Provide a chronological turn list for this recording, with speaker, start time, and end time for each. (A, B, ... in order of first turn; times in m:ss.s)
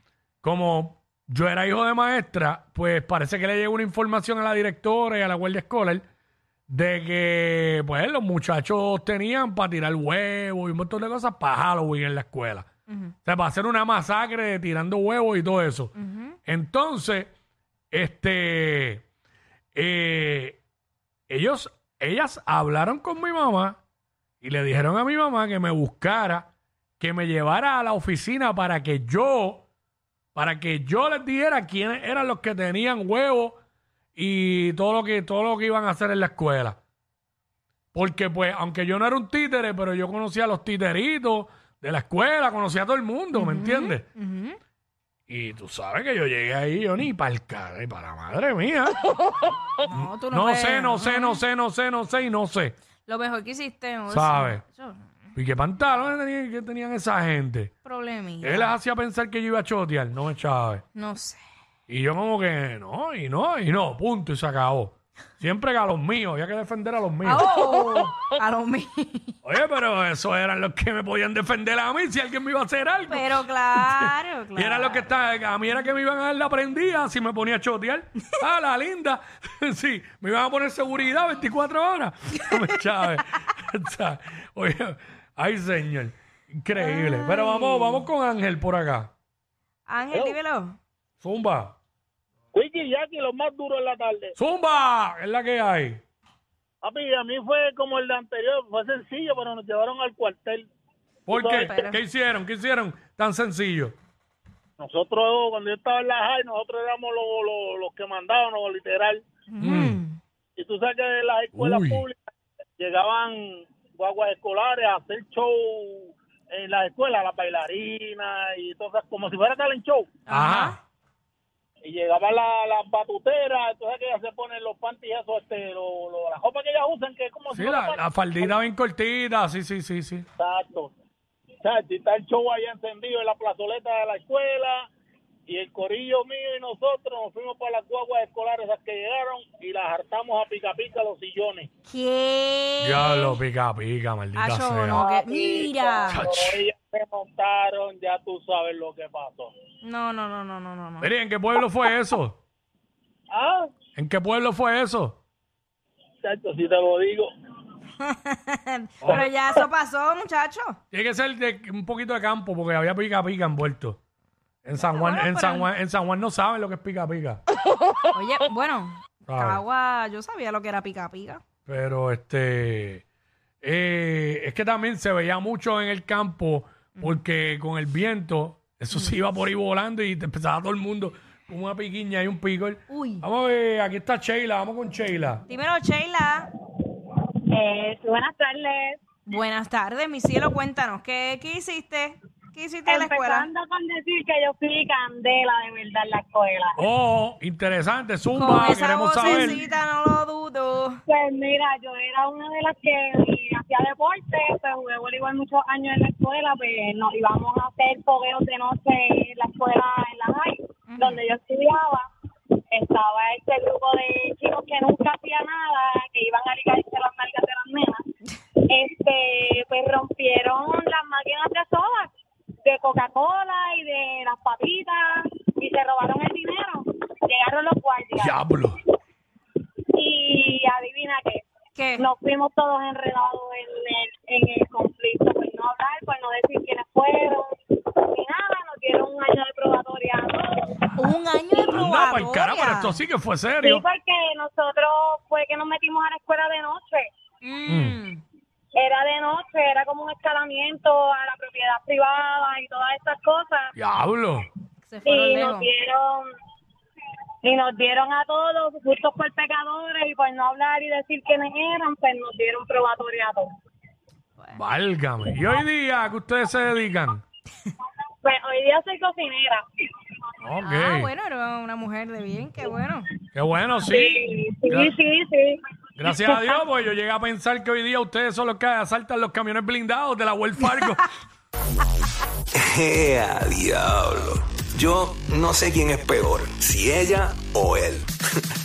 0:00.4-0:06.0 A
0:06.7-0:12.7 A
0:12.9-0:13.1 B
0:13.2-0:15.9 A
0:16.0-0:16.4 B
0:16.4-0:17.3 A
0:17.9-0:19.0 A
0:19.8-0:20.6 A
0:21.3-0:23.8 A
0:24.4-0:29.6 A
0:30.3-0:33.6 A
0:34.2-0:36.8 A
0:37.9-0:44.1 A
0:43.3-0:44.6 B
0:45.3-0:49.0 A
0:49.2-0:51.4 B
0:49.9-0:52.8 A
0:53.1-0:55.1 B
0:54.1-0:54.6 A
0:55.3-0:57.7 A
0:57.8-0:58.7 B
0:58.4-1:00.8 A
1:01.0-1:01.4 B
1:01.9-1:07.5 A
1:07.2-1:09.3 B
1:09.4-1:29.1 A
1:13.1-1:15.1 B
1:26.8-1:28.1 B
1:29.9-1:30.8 B
1:30.1-1:30.4 C
1:31.2-1:31.7 A
1:32.5-1:34.3 C
1:34.4-1:36.0 A
1:36.8-1:40.7 C
1:41.3-1:43.9 A
1:41.3-1:41.6 C
1:41.4-1:42.0 B
1:44.8-1:49.2 C
1:49.5-1:50.2 B
1:49.6-1:50.0 A
1:50.6-1:52.2 C
1:51.5-1:52.0 A
1:52.8-2:00.1 C
2:00.3-2:00.8 B
2:00.3-2:00.8 A
2:01.8-2:08.5 C
2:07.5-2:10.3 A
2:10.4-2:10.9 C
2:11.6-2:14.9 C
2:15.5-2:21.7 C
2:21.9-2:23.3 B
2:22.8-2:25.0 A
2:24.4-2:26.2 B
2:24.9-2:29.5 C
2:26.1-2:26.5 A
2:29.8-2:31.1 B
2:31.0-2:32.4 A
2:33.3-2:33.7 C
2:34.0-2:35.2 A
2:36.2-2:37.3 C
2:38.0-2:40.8 B
2:40.9-2:44.0 A
2:44.6-2:47.4 A
2:44.8-2:45.7 B
2:48.1-2:51.4 B
2:49.3-2:49.6 A
2:51.7-2:53.0 A
2:53.6-3:05.4 A
3:02.9-3:03.2 B
3:05.5-3:06.5 B
3:07.5-3:09.0 D
3:09.3-3:13.5 B
3:12.8-3:16.8 D
3:16.8-3:19.6 A
3:18.4-3:21.0 B
3:19.2-3:19.6 D
3:21.1-3:32.1 D
3:30.9-3:31.2 B
3:32.7-3:38.0 D
3:38.6-3:42.1 D
3:42.6-3:48.3 D
3:48.2-3:48.8 A
3:49.9-3:51.4 D
3:51.8-3:52.1 B
3:52.0-4:00.9 D
4:01.0-4:03.0 B
4:01.5-4:01.9 D
4:01.7-4:03.8 A
4:03.6-4:07.1 D
4:07.4-4:08.2 B
4:07.7-4:08.0 A
4:08.8-4:13.7 D
4:13.8-4:14.5 A
4:14.8-4:15.7 B
4:15.0-4:16.2 D
4:17.4-4:23.5 D
4:24.5-4:27.2 A
4:28.2-4:30.1 D
4:30.4-4:31.1 A
4:30.6-4:33.1 B
4:33.4-4:34.9 A
4:33.8-4:35.6 D
4:36.0-4:41.0 A
4:36.1-4:36.6 D
4:42.5-4:48.1 E